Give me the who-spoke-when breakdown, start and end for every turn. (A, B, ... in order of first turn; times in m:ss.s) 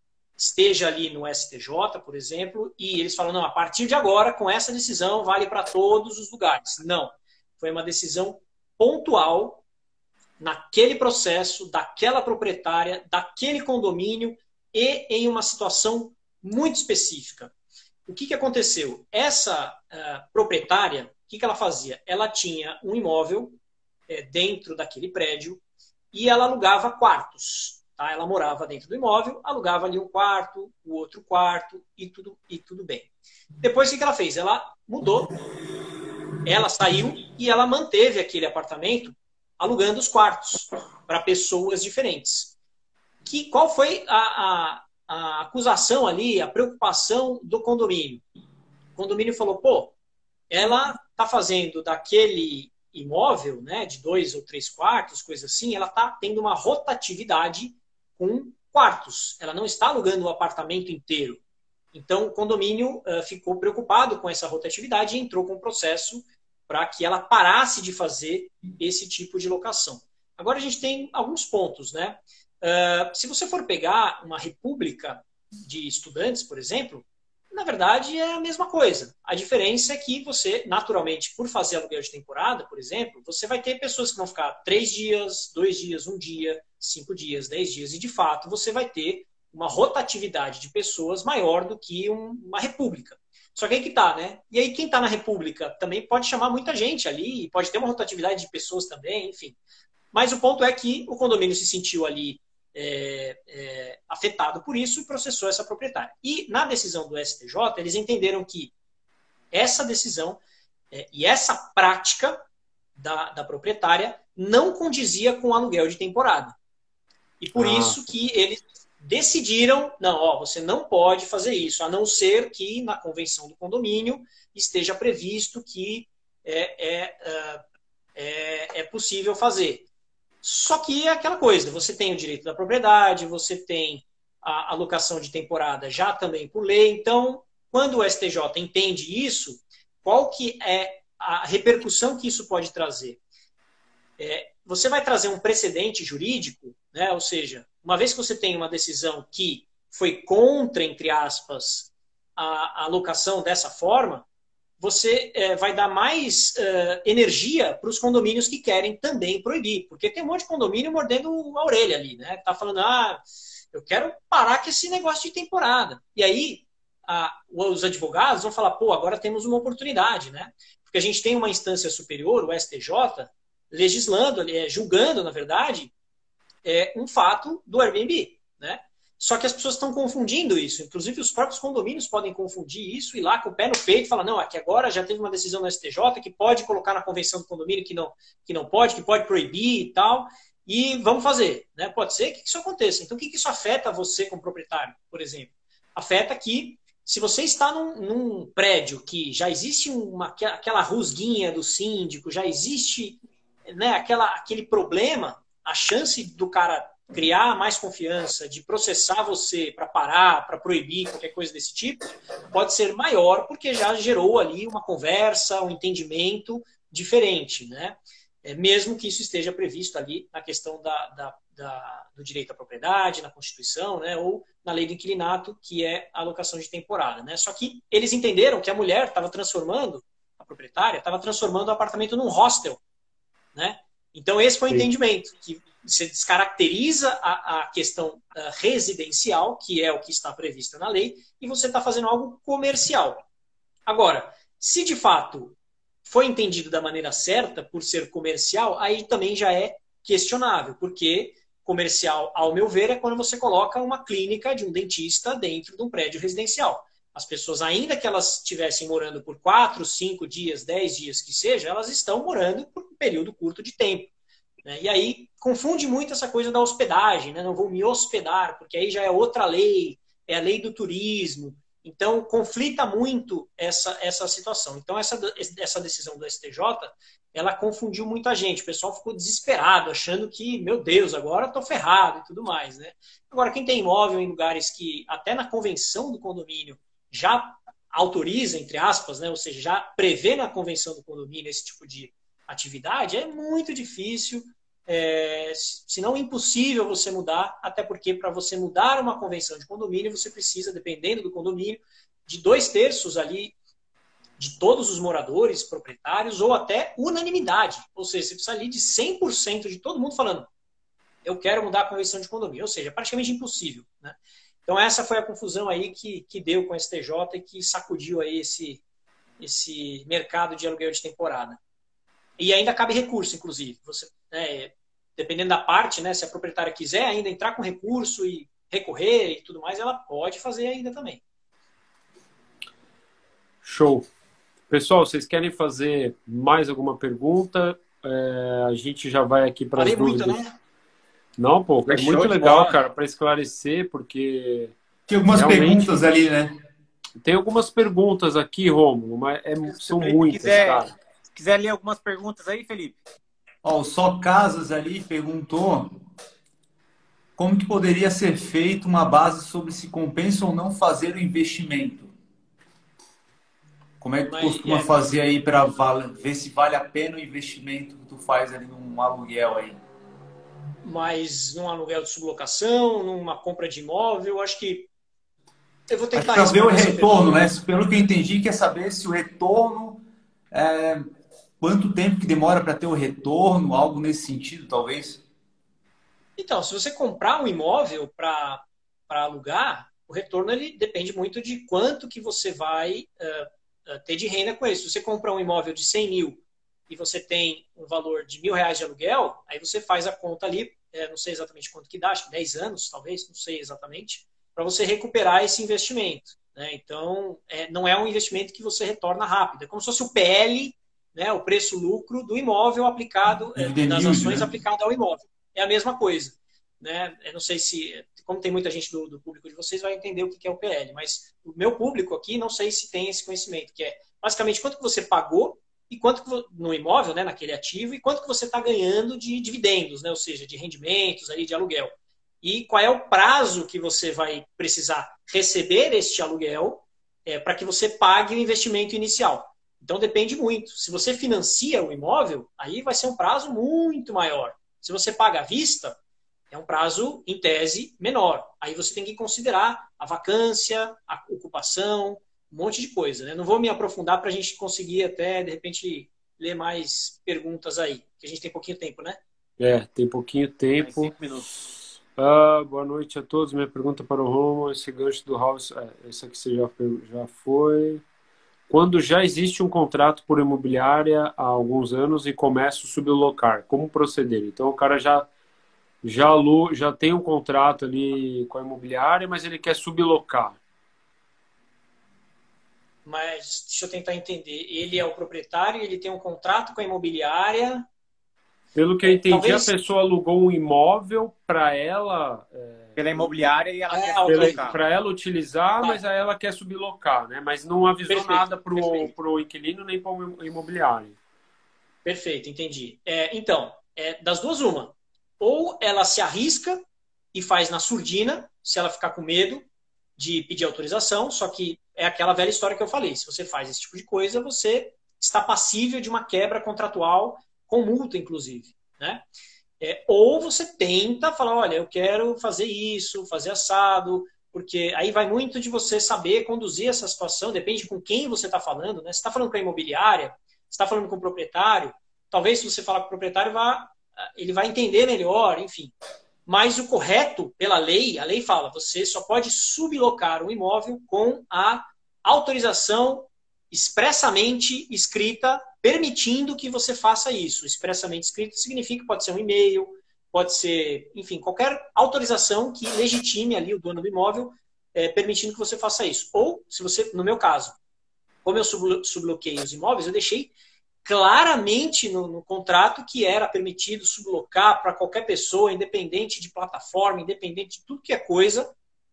0:00.4-0:09.6 A
0:10.4-0:17.5 A
0:18.1-0:23.6 A
0:24.1-0:25.6 A
0:26.1-0:35.4 A
0:36.4-0:42.5 A
0:43.2-0:48.2 A
0:49.0-0:49.9 A
0:50.5-1:01.4 A
1:01.9-1:39.6 A
1:40.1-1:48.7 A
1:49.5-1:50.4 A
1:50.9-1:52.4 A
1:53.0-1:56.6 A
1:57.4-2:07.6 A
1:57.5-1:58.0 B
2:08.2-2:09.9 A
2:10.4-2:23.2 A
2:24.2-2:34.2 A
2:34.8-2:55.9 A
2:56.6-3:52.8 A
3:53.5-4:03.2 A
4:03.8-4:05.5 A
4:06.0-4:24.1 A
4:24.6-5:03.5 A
5:04.4-5:10.5 A
5:11.2-5:18.8 A
5:19.4-5:21.6 A
5:22.4-5:31.2 A
5:33.6-5:34.1 B
5:34.7-5:40.4 B
5:39.7-5:40.5 A
5:41.4-5:44.7 B
5:41.9-5:42.8 C
5:45.1-5:46.5 D
5:45.3-5:46.0 B
5:47.2-5:51.0 B
5:49.7-5:53.0 C
5:53.6-5:56.0 D
5:57.4-6:02.1 D
6:04.0-6:09.8 D
6:04.3-6:04.9 A
6:10.8-6:14.9 A
6:15.9-6:17.4 A
6:16.1-6:21.1 D
6:21.6-6:25.2 D
6:26.4-7:26.0 A
6:53.5-6:54.5 D
7:26.5-7:39.2 A
7:39.6-7:41.1 B
7:40.8-7:41.5 C
7:42.2-7:48.0 B
7:48.7-7:55.3 B
7:56.0-8:00.6 B
8:03.0-8:07.9 A
8:08.7-8:13.2 B
8:09.0-8:09.7 A
8:13.0-8:14.8 C
8:13.9-8:14.7 A
8:14.2-8:21.2 B
8:18.1-8:19.1 A
8:22.0-8:26.8 A
8:27.3-8:29.6 A
8:30.2-8:39.2 A
8:39.8-8:55.9 A
8:56.5-9:17.8 A
9:18.4-9:20.5 A
9:21.0-9:28.7 A